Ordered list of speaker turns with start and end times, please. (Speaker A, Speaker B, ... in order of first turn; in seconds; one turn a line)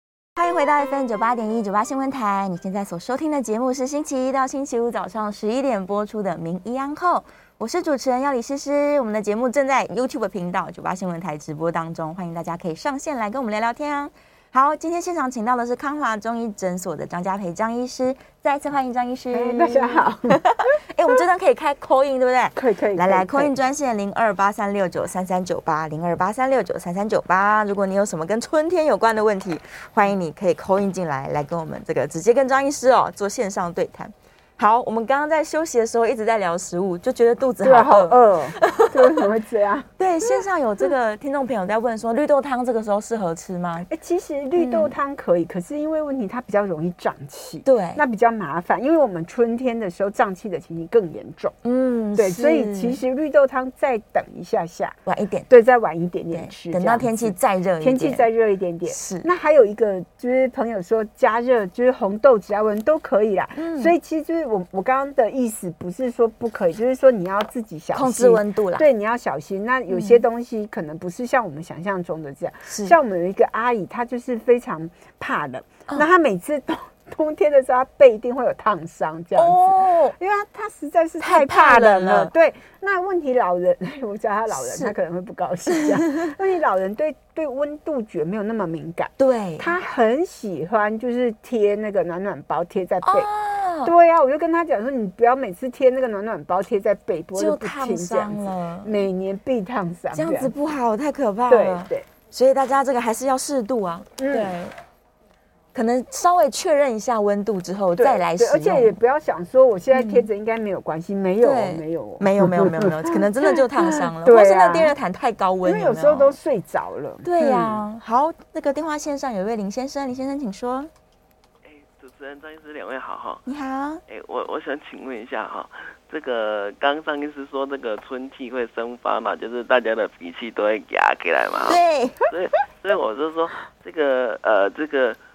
Speaker A: 0.4-39.3
Speaker B: 19.3-20.4
Speaker B: 22.6-23.5
Speaker B: 37.6-39.9
Speaker A: 40.0-43.9
Speaker B: 43.9-51.5
Speaker A: 44.6-44.9
Speaker A: 47.6-48.0
Speaker A: 51.6-53.0
Speaker B: 52.2-55.0
Speaker A: 55.1-55.5
Speaker B: 55.5-93.3
Speaker A: 56.3-58.3
Speaker A: 58.9-59.3
Speaker A: 63.6-63.9
Speaker A: 67.9-68.9
Speaker A: 69.9-70.2
Speaker A: 72.7-73.0
Speaker A: 79.3-80.2
Speaker A: 81.2-82.3
Speaker A: 84.5-84.9
Speaker A: 85.7-86.3
Speaker A: 89.2-89.7
Speaker A: 93.0-93.9
Speaker B: 93.8-100.5
Speaker A: 97.3-99.1
Speaker A: 100.1-104.8
Speaker B: 101.5-102.1
Speaker B: 104.2-104.6
Speaker A: 105.7-109.0
Speaker B: 108.0-115.0
Speaker A: 109.9-110.3
Speaker A: 111.4-116.4
Speaker B: 115.6-117.8
Speaker A: 117.2-120.9
Speaker C: 121.7-123.4
Speaker A: 123.5-124.0
Speaker C: 124.1-135.2
Speaker A: 131.7-132.2